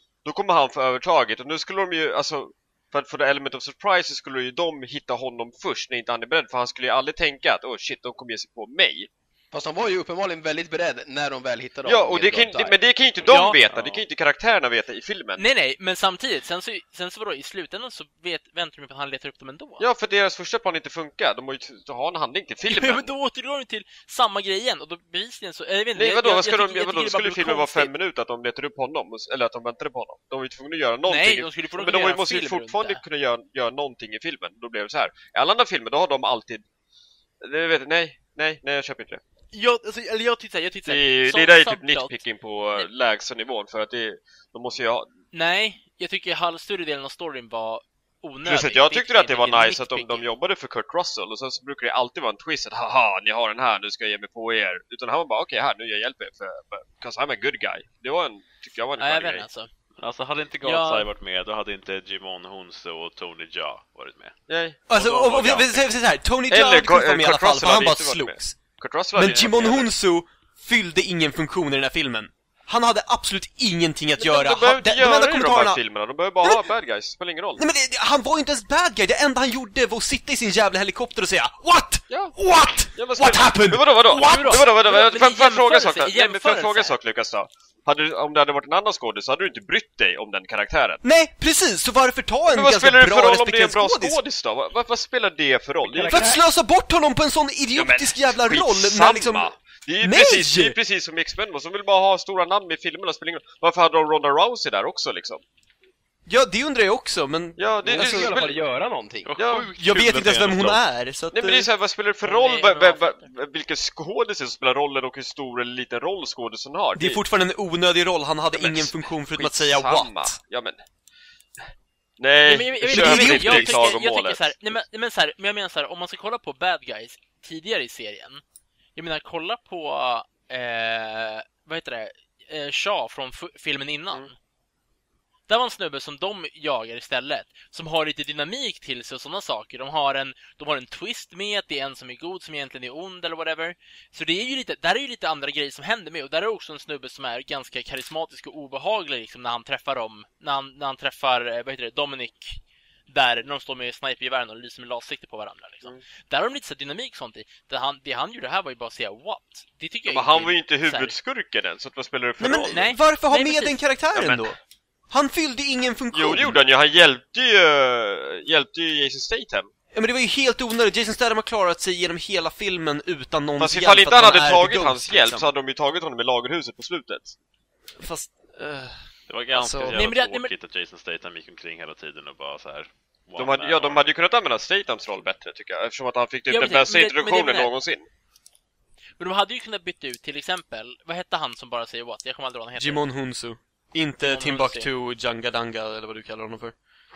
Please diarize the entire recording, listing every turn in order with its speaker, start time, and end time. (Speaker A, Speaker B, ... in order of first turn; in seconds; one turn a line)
Speaker A: 0.2-9.1
Speaker B: 9.5-12.8
Speaker A: 11.8-15.4
Speaker C: 13.3-13.6
Speaker D: 13.7-14.0
Speaker C: 15.4-19.9
Speaker A: 19.8-23.1
Speaker C: 22.7-27.9
Speaker A: 25.9-36.6
Speaker C: 31.1-33.0
Speaker A: 37.4-39.2
Speaker C: 39.5-42.2
Speaker A: 40.9-45.1
Speaker C: 45.3-50.2
Speaker A: 48.5-59.5
Speaker C: 59.0-59.7
Speaker D: 60.0-64.4
Speaker C: 60.6-61.1
Speaker A: 64.5-65.9
Speaker E: 64.9-75.8
Speaker A: 66.5-69.9
Speaker A: 74.2-77.6
Speaker E: 77.6-84.7
Speaker A: 82.1-91.0
Speaker C: 84.1-87.0
Speaker E: 91.0-94.2
Speaker A: 92.5-96.3
Speaker B: 95.8-96.4
Speaker E: 96.1-100.8
Speaker A: 97.7-105.4
Speaker E: 106.3-108.3
Speaker A: 107.6-108.6
Speaker B: 107.8-109.3
Speaker D: 109.3-110.8
Speaker A: 109.4-109.7
Speaker E: 109.8-111.7
Speaker A: 111.3-117.2
Speaker C: 112.2-113.3
Speaker E: 117.0-120.4
Speaker A: 118.5-120.8
Speaker A: 122.2-124.8
Speaker C: 122.5-128.4
Speaker E: 122.8-123.9
Speaker C: 129.0-134.3
Speaker C: 135.5-161.2
Speaker A: 160.1-162.9
Speaker E: 162.4-164.6
Speaker C: 162.7-163.8
Speaker A: 164.1-164.6
Speaker E: 165.1-166.6
Speaker A: 166.1-169.7
Speaker E: 169.9-175.5
Speaker A: 173.6-177.3
Speaker E: 178.0-180.0
Speaker D: 179.3-184.1
Speaker C: 179.9-180.5
Speaker A: 183.4-188.1
Speaker C: 186.5-187.7
Speaker C: 189.2-193.0
Speaker E: 192.8-196.8
Speaker C: 194.2-194.9